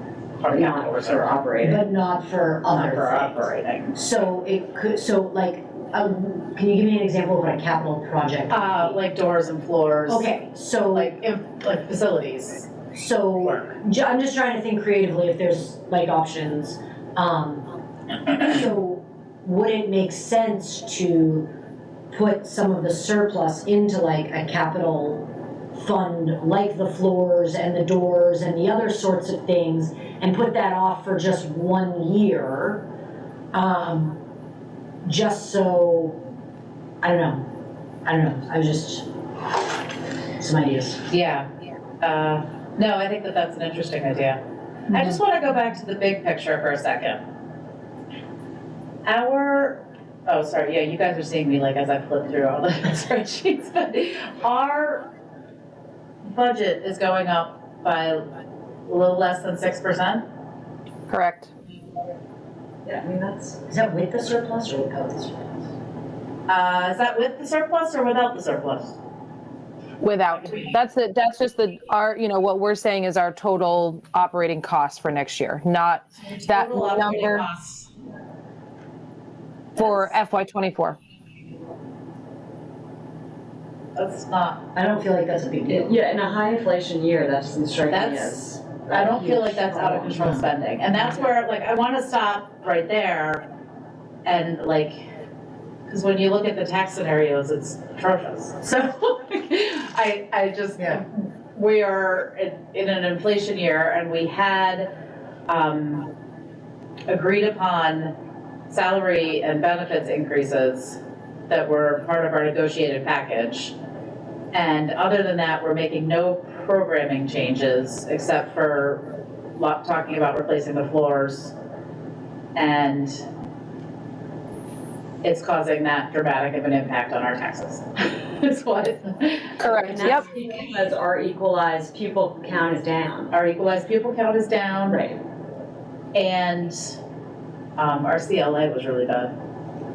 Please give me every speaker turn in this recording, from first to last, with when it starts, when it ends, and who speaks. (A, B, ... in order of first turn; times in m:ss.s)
0:00.4-0:01.3 A
0:00.4-0:01.8 B
0:01.6-0:09.0 C
0:02.7-0:03.9 A
0:08.5-0:10.3 A
0:10.1-0:11.1 C
0:10.9-0:12.7 A
0:12.9-0:17.6 C
0:18.3-0:21.5 C
0:22.1-0:25.2 C
0:25.7-0:32.8 C
0:33.5-0:34.2 C
0:35.0-0:36.2 C
0:37.0-0:37.5 C
0:38.0-0:39.1 C
0:40.4-0:41.1 C
0:41.1-0:41.5 A
0:42.0-0:44.4 A
0:44.9-0:47.2 A
0:49.0-0:55.0 A
0:56.3-0:58.3 A
0:58.9-1:00.2 A
1:01.1-1:01.5 D
1:02.8-1:03.6 B
1:03.7-1:05.6 C
1:06.5-1:09.0 A
1:10.0-1:17.5 D
1:16.3-1:17.9 A
1:19.8-1:21.0 D
1:19.8-1:20.1 A
1:24.0-1:24.6 A
1:24.7-1:26.0 C
1:25.7-1:30.5 B
1:27.9-1:28.4 A
1:28.9-1:33.4 A
1:34.2-1:35.0 A
1:35.9-1:44.9 A
1:45.5-1:46.1 A
1:47.1-1:48.1 A
1:48.7-1:53.7 A
1:54.5-2:01.5 A
2:02.6-2:03.2 A
2:05.2-2:09.9 A
2:09.6-2:10.3 D
2:09.8-2:13.3 B
2:13.3-2:15.0 A
2:14.9-2:15.2 B
2:16.1-2:17.0 A
2:17.8-2:19.3 A